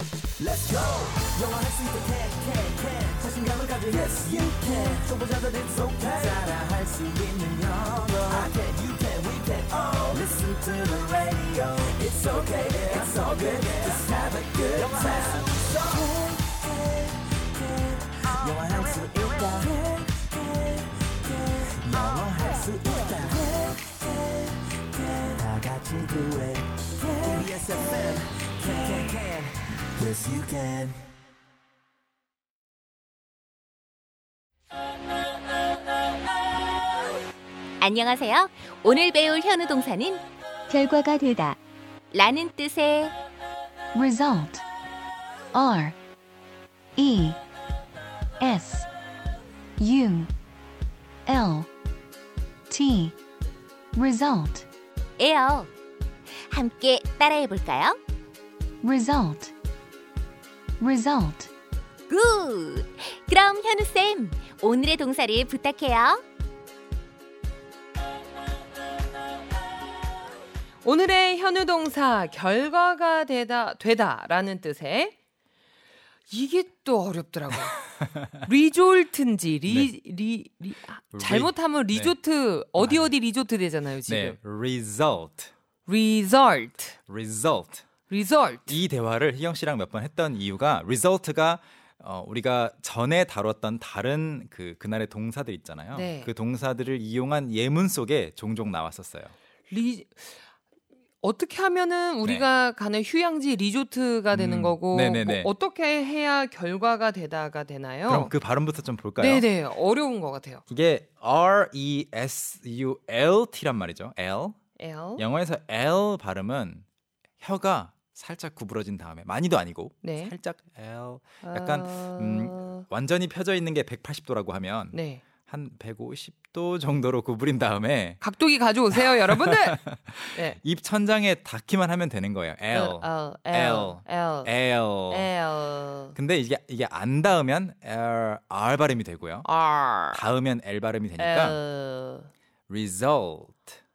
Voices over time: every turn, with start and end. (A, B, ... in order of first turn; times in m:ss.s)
0:00.4-0:24.0 A
0:25.0-0:31.0 A
0:37.8-0:41.6 B
0:42.1-0:43.1 B
0:43.9-0:44.6 C
0:45.5-0:46.0 C
0:47.0-0:47.4 C
0:48.4-0:48.9 C
0:49.8-0:50.3 C
0:51.2-0:51.7 C
0:52.7-0:53.2 C
0:54.0-0:54.7 C
0:55.2-0:55.7 B
0:56.5-0:58.0 B
0:58.8-0:59.5 C
1:00.8-1:01.5 C
1:02.1-1:06.2 B
1:10.8-1:15.1 D
1:16.3-1:17.8 D
1:18.4-1:24.4 D
1:19.7-1:19.9 E
1:21.1-1:22.2 E
1:22.8-1:23.1 E
1:24.0-1:25.5 E
1:25.8-1:27.0 D
1:27.1-1:27.8 E
1:28.1-1:28.8 D
1:28.7-1:39.3 E
1:35.9-1:36.3 D
1:39.7-1:40.2 D
1:41.2-1:48.3 D
1:44.3-1:45.5 E
1:48.1-1:49.5 E
1:49.2-1:50.6 D
1:50.7-1:54.6 E
1:54.8-1:55.2 D
1:55.2-1:56.8 E
1:57.4-2:08.2 E
2:00.0-2:00.3 D
2:01.4-2:02.8 D
2:04.9-2:05.2 D
2:08.2-2:10.6 D
2:08.9-2:15.3 E
2:12.7-2:16.1 D
2:16.1-2:19.5 E
2:19.4-2:20.2 D
2:20.1-2:21.6 E
2:21.2-2:22.3 D
2:22.7-2:23.7 E